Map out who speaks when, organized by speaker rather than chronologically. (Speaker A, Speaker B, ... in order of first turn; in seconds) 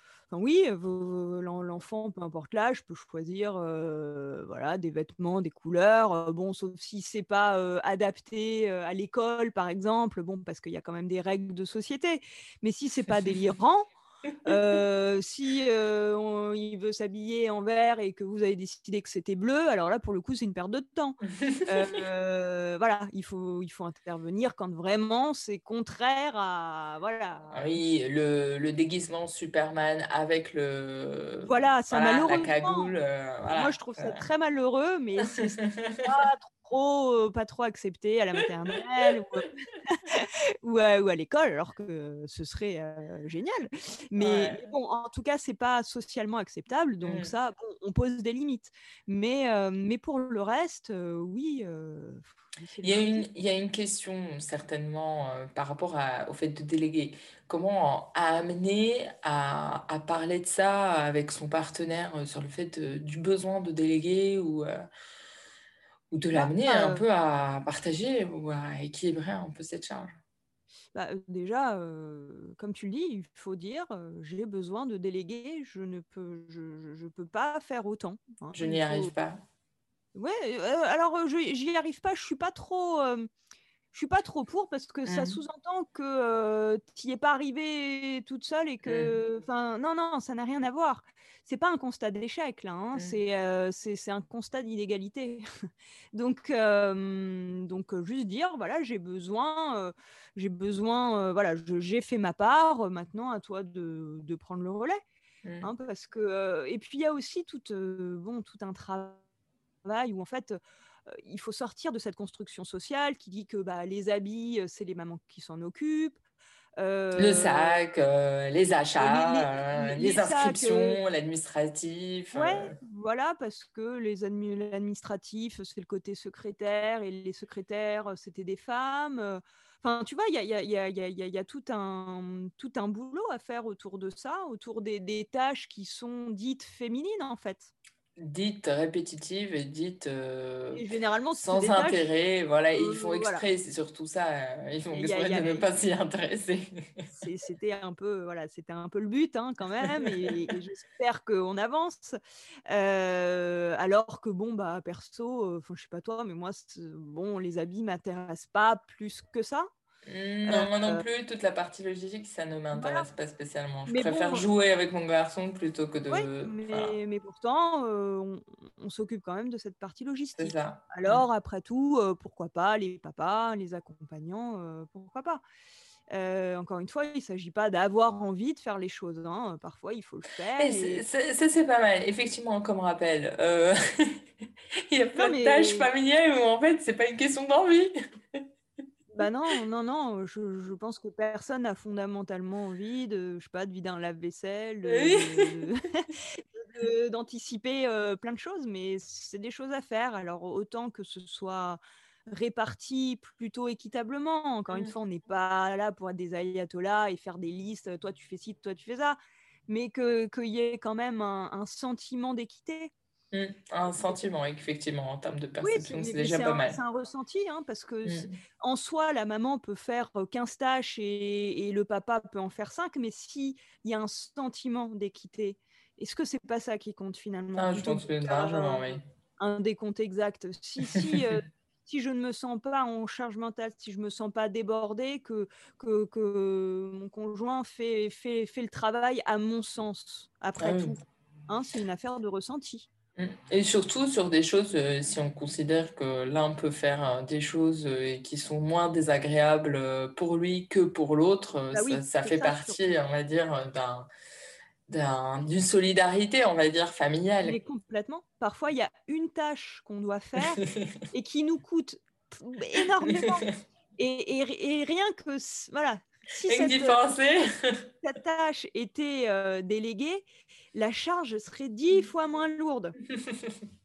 Speaker A: 0.3-13.9, 14.4-27.8, 31.4-32.9, 33.5-53.2, 66.3-67.0, 70.9-79.1, 80.1-83.3, 83.9-95.4, 96.1-105.0, 105.6-109.2, 109.8-116.2, 116.8-117.8, 119.0-121.0, 122.3-137.7, 140.7-142.1, 142.7-143.4, 144.9-145.7, 147.1-152.2, 152.7-159.7, 160.4-161.0, 162.7-163.1, 163.9-164.4, 166.1-175.4, 176.1-181.0, 185.2-185.9, 189.1-212.9, 215.6-242.9, 251.7-252.9, 257.4-263.4, 264.0-267.0, 268.0-272.9
Speaker B: 21.4-22.0, 27.5-34.2, 35.3-36.0, 44.2-44.7, 47.0-47.3, 52.8-64.8, 66.1-70.2, 78.5-79.4, 85.0-85.4, 88.8-89.2, 105.4-105.7, 117.2-122.7, 138.2-147.1, 149.9-150.3, 160.1-167.0, 170.4-171.2, 180.6-184.2, 184.9-188.4, 194.9-195.5, 213.3-216.8, 218.0-218.4, 227.6-229.0, 230.9-231.2, 240.6-241.0, 243.2-254.1, 254.9-257.6, 260.6-260.9, 263.1-263.4, 266.5-267.9, 273.3-273.5